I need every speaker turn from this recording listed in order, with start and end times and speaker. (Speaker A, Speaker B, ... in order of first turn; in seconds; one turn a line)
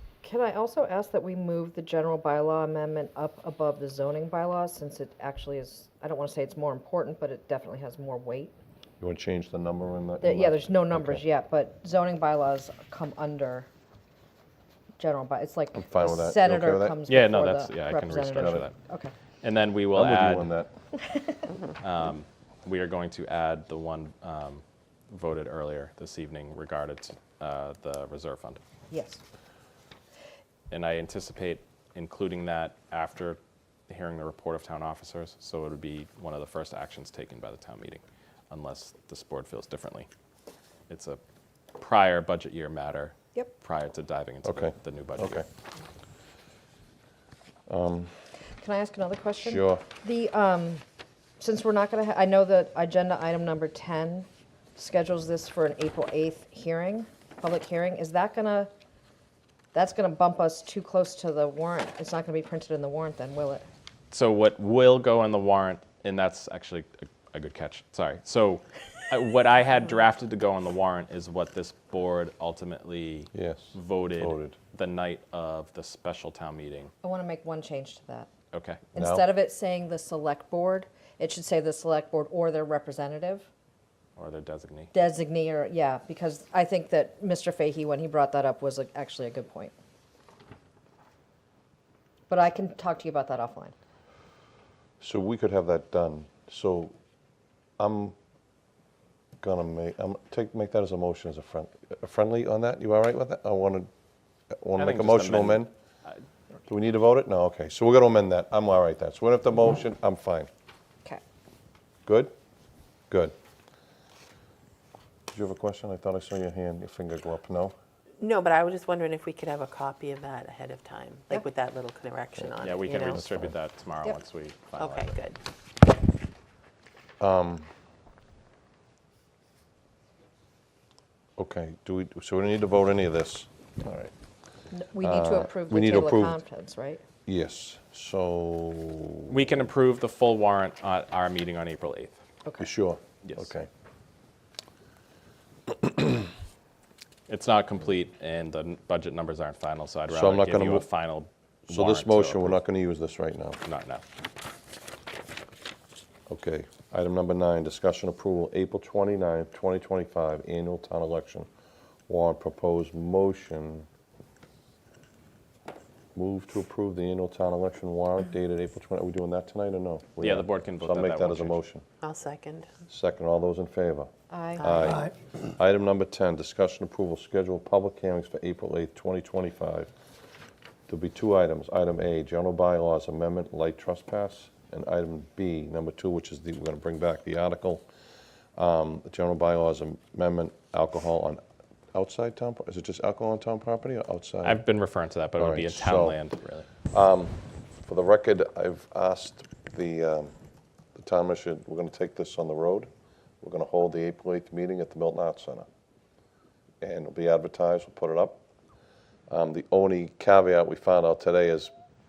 Speaker A: 0.2-8.5
Speaker B: 9.0-11.2
Speaker A: 10.2-13.7
Speaker A: 15.0-19.1
Speaker B: 15.8-17.0
Speaker C: 17.1-18.7
Speaker B: 18.3-18.6
Speaker C: 19.4-20.5
Speaker B: 19.9-20.7
Speaker A: 20.9-21.5
Speaker C: 21.8-28.6
Speaker A: 28.9-29.2
Speaker C: 30.7-33.4
Speaker C: 33.9-40.1
Speaker C: 40.9-41.2
Speaker C: 41.8-45.4
Speaker B: 44.4-45.4
Speaker B: 47.7-48.1
Speaker A: 48.6-50.8
Speaker B: 49.4-49.8
Speaker A: 51.4-58.7
Speaker A: 59.7-63.6
Speaker C: 64.1-76.9
Speaker B: 73.3-74.5
Speaker A: 77.0-78.3
Speaker C: 78.5-78.8
Speaker A: 78.9-83.5
Speaker B: 79.0-79.2
Speaker C: 84.2-84.9
Speaker A: 84.9-89.7
Speaker A: 92.3-93.7
Speaker B: 95.0-96.9
Speaker B: 97.8-98.2
Speaker B: 99.4-103.9
Speaker B: 104.6-105.7
Speaker C: 104.8-106.2
Speaker B: 106.7-110.5
Speaker B: 112.0-112.3
Speaker B: 115.3-117.7
Speaker D: 118.2-123.2
Speaker C: 122.6-125.1
Speaker B: 123.0-123.5
Speaker D: 124.8-125.4
Speaker B: 127.2-127.7
Speaker B: 131.4-134.1
Speaker A: 134.7-137.0
Speaker B: 135.0-136.4
Speaker B: 137.2-139.6
Speaker C: 139.3-142.1
Speaker A: 142.4-142.7
Speaker B: 142.6-143.7
Speaker B: 145.8-146.1
Speaker C: 147.3-152.6
Speaker B: 150.1-150.8
Speaker B: 151.7-153.6
Speaker C: 153.6-154.0
Speaker B: 156.3-161.5
Speaker B: 162.1-163.9
Speaker B: 166.1-171.8
Speaker C: 170.2-171.6
Speaker D: 172.0-172.7
Speaker B: 172.9-179.9
Speaker A: 174.3-174.7
Speaker D: 174.6-175.1
Speaker B: 180.9-187.8
Speaker B: 188.6-191.4
Speaker B: 191.9-194.7
Speaker C: 194.4-196.7
Speaker B: 195.4-196.2
Speaker B: 196.9-200.3
Speaker B: 200.9-202.9
Speaker B: 203.4-205.7
Speaker B: 206.8-208.4
Speaker B: 209.3-211.7